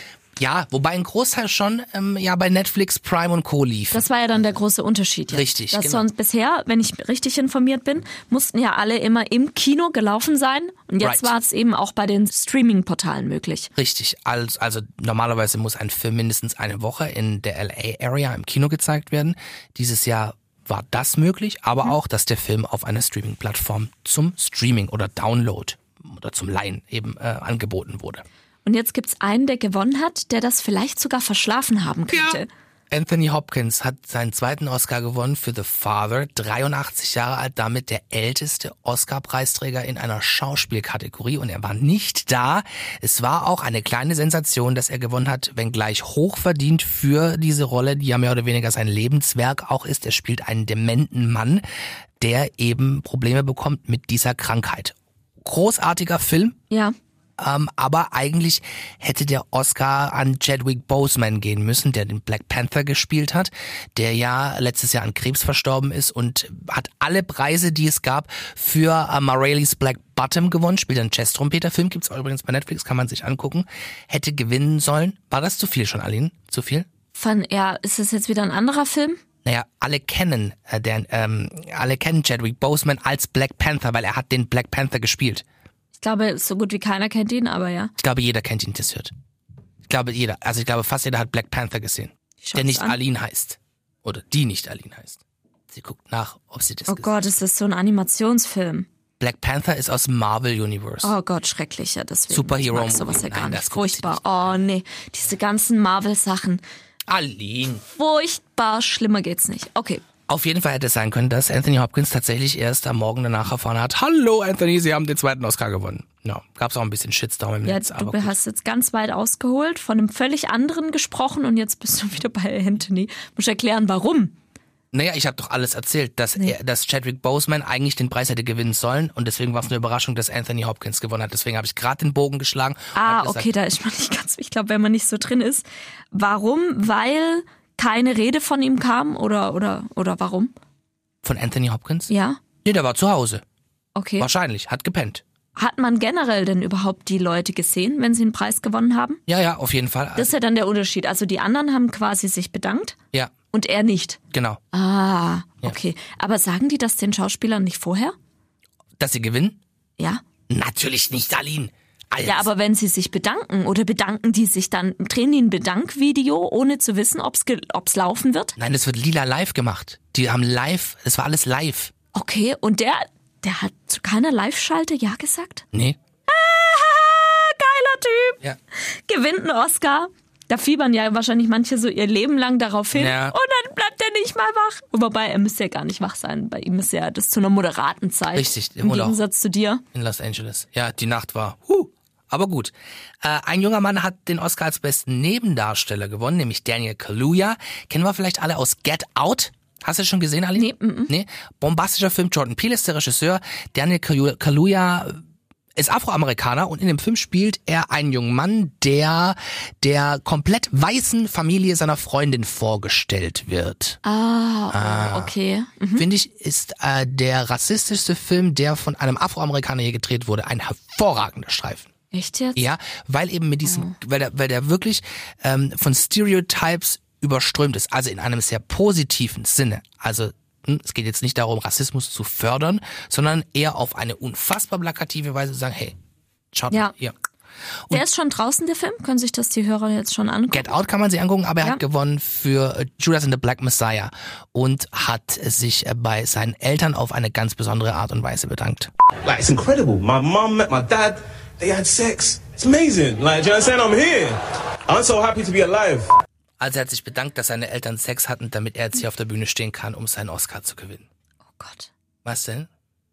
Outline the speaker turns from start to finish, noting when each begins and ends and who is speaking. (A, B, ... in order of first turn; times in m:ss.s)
0:00.4-0:04.1 A
0:03.9-0:13.7 B
0:05.3-0:06.1 A
0:11.0-0:11.3 A
0:13.8-0:28.2 A
0:28.6-0:32.5 B
0:32.1-0:51.6 A
0:52.2-0:56.6 A
0:56.7-0:57.0 B
0:57.4-1:16.9 A
1:17.2-1:19.2 B
1:19.4-1:25.4 A
1:26.0-1:27.9 B
1:28.0-1:29.1 A
1:29.9-1:35.2 A
1:32.4-1:33.0 B
1:35.7-1:37.2 A
1:36.9-1:38.9 B
1:39.2-1:41.1 A
1:41.0-1:46.6 B
1:42.3-1:44.3 A
1:47.1-1:47.8 A
1:47.9-1:50.0 B
1:50.3-1:58.4 A
1:57.6-2:04.4 B
2:04.9-2:13.5 A
2:13.0-2:20.5 B
2:21.2-2:22.1 A
2:22.1-2:22.4 B
2:22.6-2:23.4 A
2:24.0-2:24.3 B
2:24.2-2:25.2 A
2:25.6-2:29.2 B
2:29.3-2:30.3 A
2:30.2-2:33.0 B
2:33.5-2:34.2 B
2:34.3-2:34.6 A
2:34.7-2:38.2 B
2:39.0-2:39.6 A
2:40.5-2:42.5 A
2:42.2-2:48.6 B
2:48.6-2:51.9 A
2:52.1-2:55.6 B
2:56.3-3:09.8 B
3:02.9-3:03.4 A
3:08.3-3:09.2 A
3:09.9-3:25.2 A
3:20.6-3:21.1 B
3:25.8-3:34.0 A
3:34.0-3:36.1 B
3:34.7-3:35.3 A
3:36.0-3:41.9 A
3:42.1-3:42.6 B
3:42.6-3:56.0 A
3:43.6-3:44.0 B
3:56.5-3:57.1 A
3:57.9-4:00.8 B
4:00.5-4:08.9 A
4:09.2-4:16.1 C
4:16.6-4:21.1 A
4:21.5-4:21.9 B
4:22.2-4:22.7 A